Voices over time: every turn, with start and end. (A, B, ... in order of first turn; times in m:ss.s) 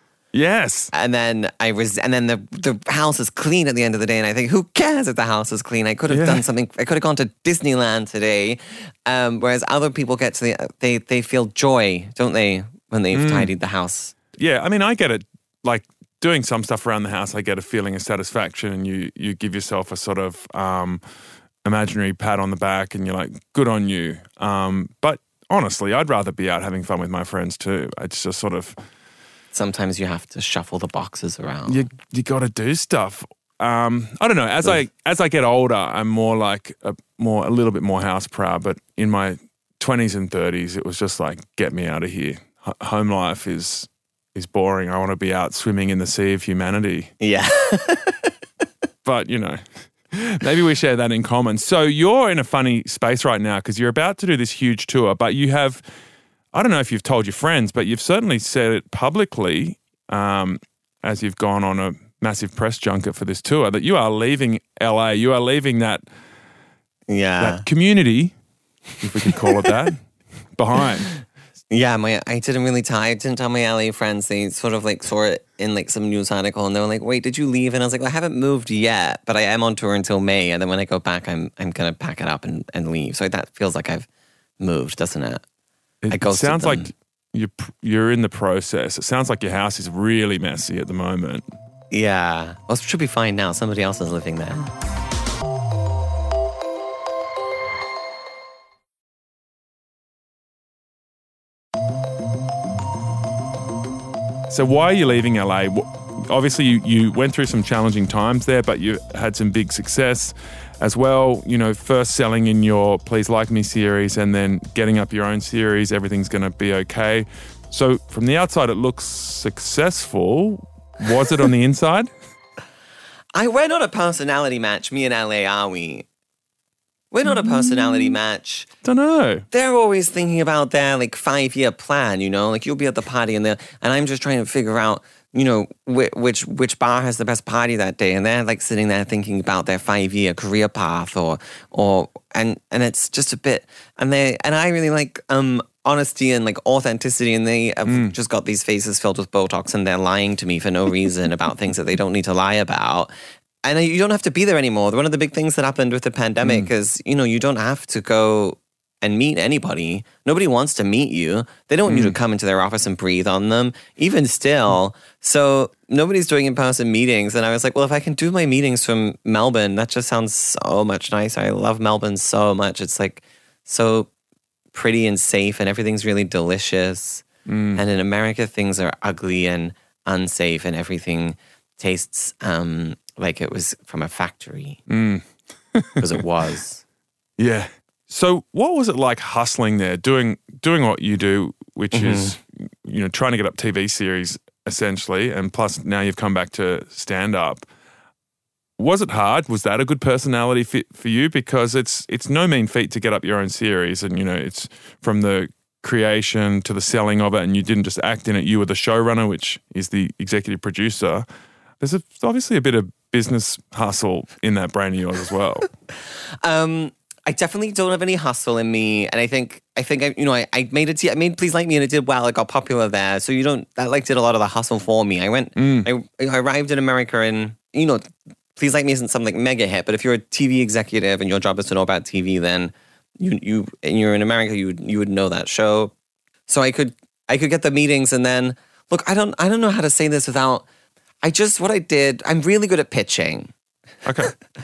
0:00.3-0:00.9 A
0:00.9-0:14.1 B
0:06.1-0:06.4 A
0:13.1-0:13.5 A
0:14.3-0:21.0 A
0:21.6-0:28.8 A
0:29.5-0:31.9 B
0:31.7-0:47.1 A
0:47.2-0:48.3 B
0:49.0-0:55.8 A
0:56.5-1:06.0 A
1:07.1-1:07.6 B
1:07.4-1:08.3 A
1:09.0-1:10.0 A
1:09.2-1:09.6 B
1:10.6-1:11.1 A
1:11.7-1:24.1 B
1:24.6-1:25.4 B
1:26.0-1:31.4 A
1:26.1-1:26.9 B
1:31.9-1:34.7 B
1:44.5-2:02.1 A
2:03.3-2:06.0 B
2:07.1-2:08.7 B
2:08.8-2:09.4 A
2:09.5-2:33.1 B
2:27.8-2:28.1 A
2:33.6-2:54.1 B
2:36.4-2:36.7 A
2:41.9-2:42.2 A
2:54.7-3:04.8 B
2:57.5-2:57.8 A
3:04.9-3:06.1 A
3:06.0-3:06.8 B
3:07.4-3:17.6 A
3:11.9-3:12.3 B
3:18.8-3:31.2 A
3:31.8-3:35.7 A
3:36.4-3:48.0 B
3:45.6-3:45.9 A
3:48.6-3:55.9 B
3:56.5-4:00.6 B
4:01.2-4:03.5 B
4:04.0-4:04.3 A